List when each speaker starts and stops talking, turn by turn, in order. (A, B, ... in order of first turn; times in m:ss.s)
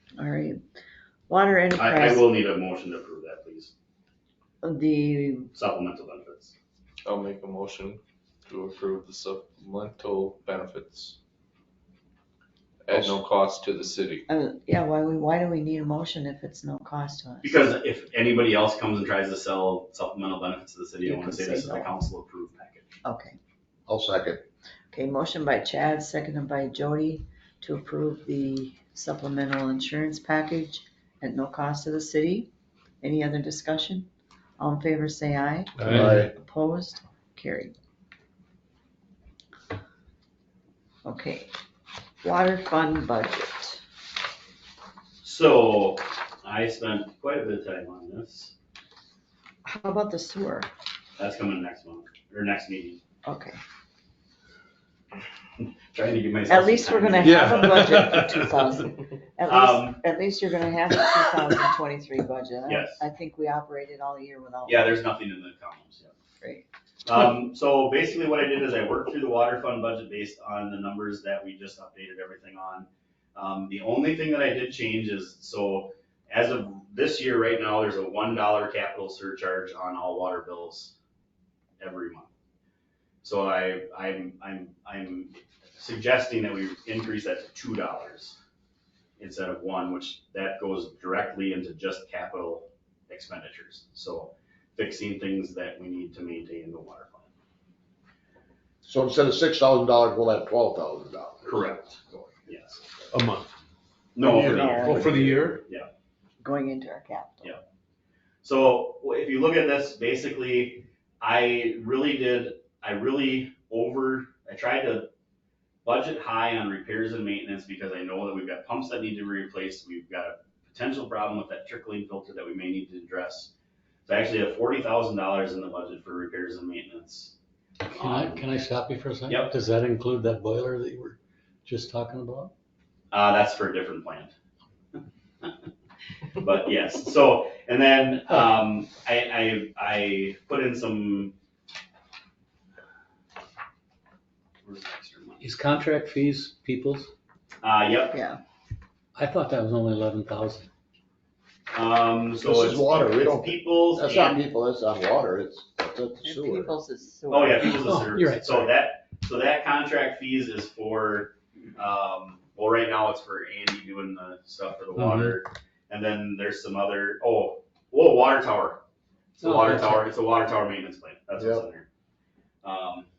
0:00.2-0:00.6 A
0:01.3-0:02.3 A
0:01.8-0:03.7 B
0:04.6-0:05.5 A
0:05.5-0:06.5 B
0:07.0-0:11.2 C
0:12.8-0:14.2 C
0:12.9-0:13.2 D
0:14.3-0:17.6 A
0:17.4-0:22.9 B
0:21.0-0:21.9 A
0:23.0-0:23.4 A
0:23.9-0:24.4 D
0:24.9-0:32.5 A
0:33.0-0:37.7 A
0:35.8-0:36.3 D
0:41.0-0:41.5 A
0:42.2-0:43.8 A
0:45.2-0:48.5 B
0:49.6-0:50.7 A
0:51.2-0:53.0 B
0:53.2-0:53.6 A
0:55.9-0:57.4 B
0:56.5-1:05.0 A
0:57.2-0:58.5 E
0:59.4-1:00.0 B
1:02.6-1:03.0 B
1:04.6-1:06.1 B
1:07.0-1:20.9 B
1:21.8-1:22.3 B
1:23.2-1:28.4 B
1:29.2-1:37.3 B
1:38.8-1:41.6 D
1:41.4-1:43.1 B
1:43.1-1:43.5 E
1:44.2-1:45.9 B
1:44.2-1:45.6 E
1:44.3-1:45.2 A
1:46.4-1:47.6 A
1:48.4-1:55.1 B
1:55.8-2:03.5 B
2:04.0-2:07.3 B
2:07.8-2:12.5 F
2:07.9-2:08.5 B
2:09.3-2:09.5 B
2:13.1-2:14.3 B
2:16.4-2:21.3 B
2:18.3-2:18.6 F
2:24.6-2:25.4 B
2:25.4-2:27.1 F
2:27.6-2:28.2 B
2:28.1-2:28.4 A
2:29.1-2:30.7 F
2:31.7-2:34.4 B
2:32.4-2:36.7 D
2:36.2-2:37.8 A
2:37.3-2:48.8 B
2:37.6-2:38.7 F
2:49.3-2:51.8 B
2:49.4-2:50.1 F
2:51.4-2:51.6 D
2:52.6-2:53.1 B